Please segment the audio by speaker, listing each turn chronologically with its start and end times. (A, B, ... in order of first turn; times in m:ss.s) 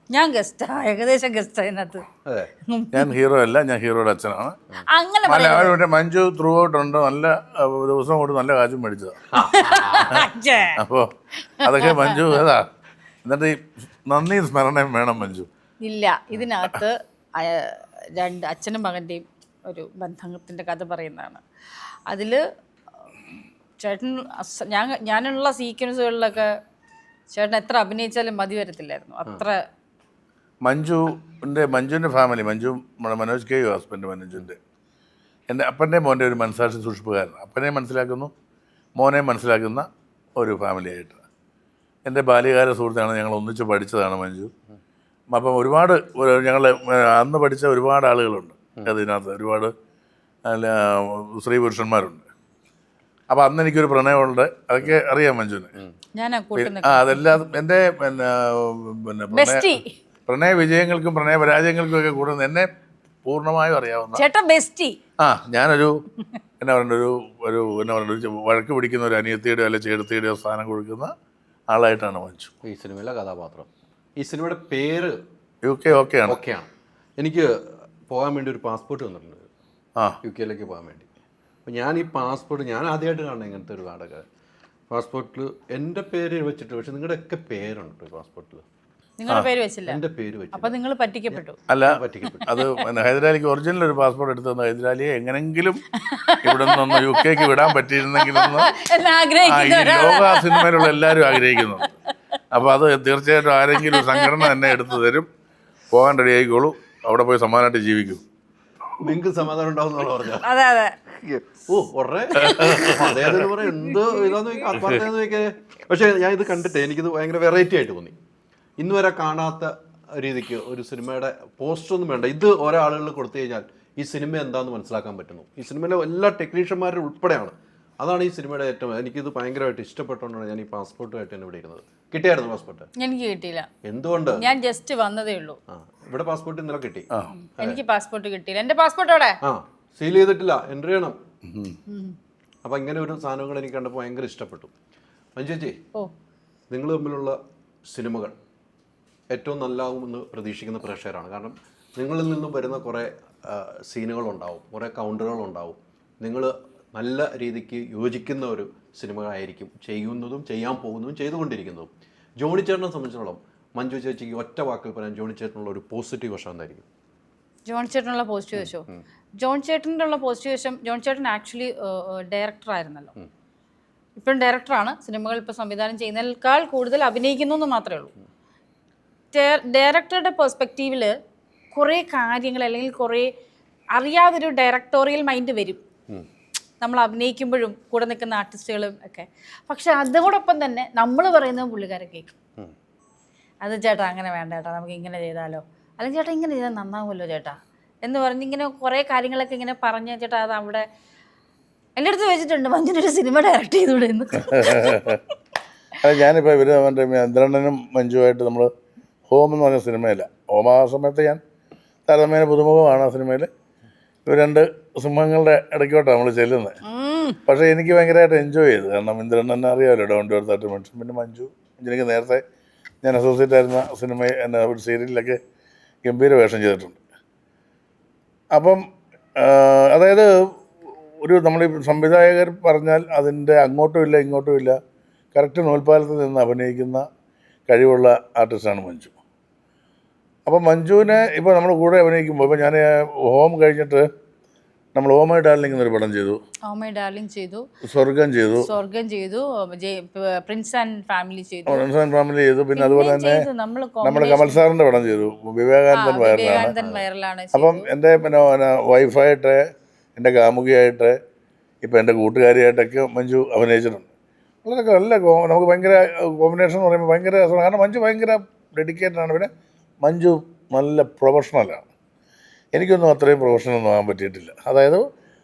0:00.1-0:02.0 A
0:02.7-0:03.0 A
0:02.9-0:04.5 B
0:04.9-0:05.8 A
0:05.3-0:09.2 B
0:09.3-0:10.8 A
0:09.4-0:10.2 C
0:10.8-0:11.1 B
0:11.6-0:12.3 A
0:11.6-0:12.6 B
0:13.2-0:13.6 B
0:14.1-0:15.5 B
0:15.8-0:21.4 A
0:22.1-0:22.4 A
0:23.8-0:26.5 A
0:27.3-0:29.6 A
0:30.6-0:34.6 B
0:35.5-0:38.3 B
0:39.0-0:39.9 B
0:40.4-0:41.2 B
0:42.0-0:44.5 B
0:45.3-0:49.7 B
0:50.5-0:52.2 B
0:53.3-0:55.7 B
0:56.1-0:57.2 A
0:56.5-0:59.7 B
0:59.3-0:59.9 A
1:00.3-1:02.7 B
1:03.2-1:04.2 B
1:04.2-1:05.0 A
1:05.2-1:05.9 B
1:06.6-1:11.1 B
1:11.7-1:12.5 B
1:12.6-1:15.1 C
1:15.6-1:16.4 B
1:16.2-1:16.7 C
1:17.2-1:17.5 C
1:18.1-1:19.5 C
1:20.2-1:21.1 C
1:21.6-1:24.2 C
1:24.9-1:28.6 C
1:29.2-1:30.0 A
1:29.9-1:30.7 C
1:30.5-1:31.6 A
1:31.3-1:32.5 C
1:31.7-1:35.8 B
1:36.0-1:37.5 A
1:36.4-1:38.7 B
1:38.1-1:41.5 A
1:39.4-1:41.9 B
1:42.5-1:45.3 B
1:43.8-1:44.7 A
1:45.9-1:48.2 B
1:49.0-1:50.4 C
1:50.4-1:51.0 A
1:51.2-1:58.1 C
1:52.4-1:53.0 A
1:52.4-1:53.4 B
1:58.8-2:12.9 C
2:13.0-2:13.7 A
2:13.8-2:14.4 C
2:14.4-2:15.6 A
2:15.7-2:17.1 C
2:17.3-2:19.4 A
2:19.4-2:21.2 C
2:21.4-2:21.8 B
2:21.9-2:22.2 A
2:22.6-2:24.7 C
2:25.4-2:25.8 C
2:26.7-2:27.4 C
2:27.9-2:28.3 C
2:29.3-2:41.9 C
2:42.4-2:46.8 C
2:47.6-2:48.8 A
2:48.6-2:49.0 C
2:49.4-2:53.1 A
2:54.2-2:58.1 A
2:59.3-3:01.1 A
3:01.7-3:03.3 A
3:03.9-3:05.8 A
3:06.8-3:12.3 A
3:13.6-3:20.8 A
3:22.0-3:25.1 A
3:24.5-3:25.2 B
3:26.0-3:28.7 B
3:29.3-3:31.4 B
3:32.1-3:33.5 B
3:34.2-3:36.7 B
3:36.8-3:37.4 A
3:37.5-3:42.4 B
3:43.0-3:45.4 B
3:46.0-3:47.0 B
3:48.5-3:48.8 B
3:49.4-3:50.3 B
3:51.2-3:54.8 B
3:55.3-3:57.0 B
3:57.7-3:59.1 B
4:00.4-4:04.0 B
4:04.9-4:06.4 B
4:06.7-4:07.6 A
4:07.8-4:08.7 B
4:08.6-4:11.8 A
4:11.7-4:13.5 B
4:12.8-4:14.6 A
4:14.0-4:16.7 B
4:15.9-4:17.9 A
4:17.5-4:19.6 B
4:20.2-4:21.1 B
4:21.8-4:24.1 B
4:24.6-4:29.5 B
4:30.0-4:31.9 B
4:32.7-4:35.0 B